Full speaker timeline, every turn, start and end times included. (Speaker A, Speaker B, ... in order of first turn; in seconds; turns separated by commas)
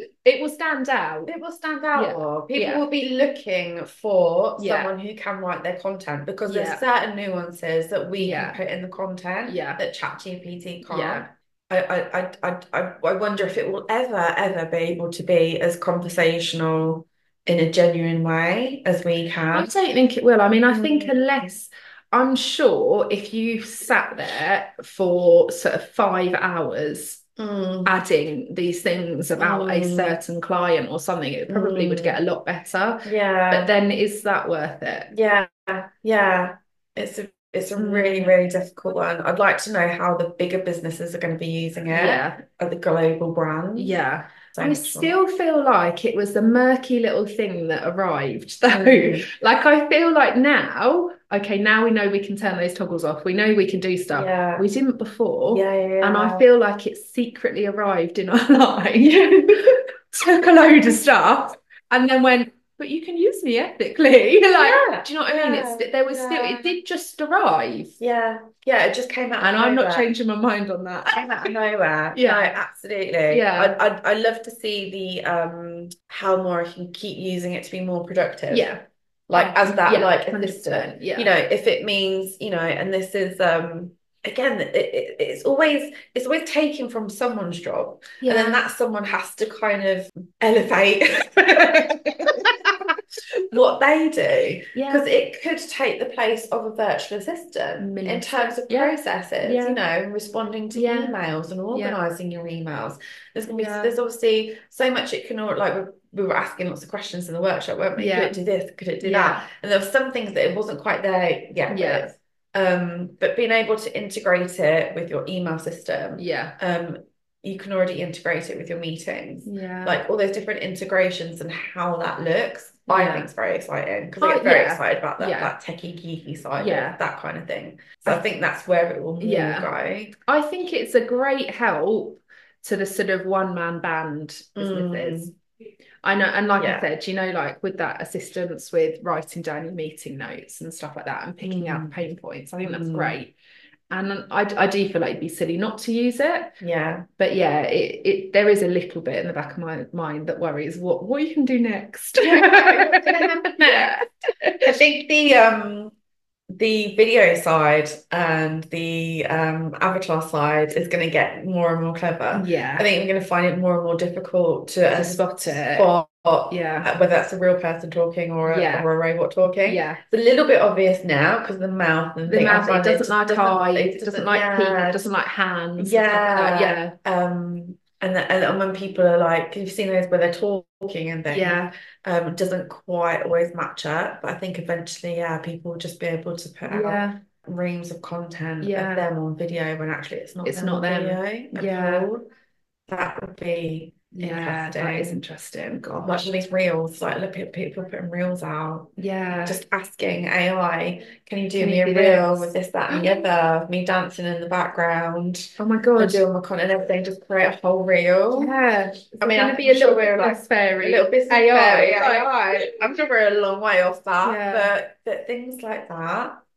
Speaker A: 0.2-1.3, Speaker B: 1.3-19.7, Speaker A: 1.9-2.8, Speaker A: 4.6-4.9, Speaker A: 6.5-6.8, Speaker A: 8.2-8.6, Speaker A: 9.5-9.8, Speaker A: 10.9-11.3, Speaker A: 19.5-27.2, Speaker B: 20.7-21.1, Speaker B: 27.4-27.9, Speaker A: 27.8-35.1, Speaker B: 29.4-30.2, Speaker B: 31.5-32.2, Speaker B: 33.0-33.7, Speaker B: 35.1-45.1, Speaker A: 37.8-38.3, Speaker A: 41.9-42.4, Speaker A: 43.8-68.0, Speaker B: 48.7-49.2, Speaker B: 54.1-54.7, Speaker B: 55.5-56.5, Speaker B: 64.5-66.7, Speaker B: 68.0-70.1, Speaker A: 69.4-71.5, Speaker B: 71.1-78.7, Speaker A: 72.1-72.5, Speaker A: 73.3-73.8, Speaker A: 78.5-78.8, Speaker B: 79.3-92.6, Speaker A: 79.3-81.3, Speaker A: 88.2-88.6, Speaker A: 91.7-92.5, Speaker B: 93.5-130.2, Speaker A: 94.7-95.1, Speaker A: 97.8-99.8, Speaker A: 100.7-101.2, Speaker A: 101.7-102.0, Speaker A: 103.5-103.9, Speaker A: 108.0-108.4, Speaker A: 109.0-109.5, Speaker A: 111.7-112.1, Speaker A: 116.2-116.6, Speaker A: 119.5-120.0, Speaker A: 122.9-123.3, Speaker A: 124.2-125.5, Speaker A: 126.6-127.0, Speaker A: 129.2-129.7, Speaker A: 130.2-135.3, Speaker B: 134.6-135.3, Speaker A: 136.0-143.3, Speaker B: 136.6-136.8, Speaker B: 141.4-141.9, Speaker B: 142.6-143.2, Speaker A: 143.9-146.5, Speaker B: 146.6-147.1, Speaker A: 147.2-154.8, Speaker B: 152.2-154.0, Speaker B: 154.6-155.9, Speaker B: 156.5-175.1, Speaker A: 162.3-162.8, Speaker A: 164.9-165.9, Speaker A: 166.5-166.9, Speaker A: 168.4-168.9, Speaker A: 169.6-170.0, Speaker A: 172.3-176.9, Speaker B: 175.8-192.2, Speaker A: 181.3-181.7, Speaker A: 186.7-187.2, Speaker A: 188.6-189.1, Speaker A: 190.4-192.1, Speaker B: 192.9-195.2, Speaker A: 194.1-196.3, Speaker B: 196.0-208.5, Speaker A: 199.0-199.6, Speaker A: 201.6-203.2, Speaker A: 205.6-206.2, Speaker A: 208.3-212.7, Speaker B: 209.2-216.4, Speaker A: 214.2-214.7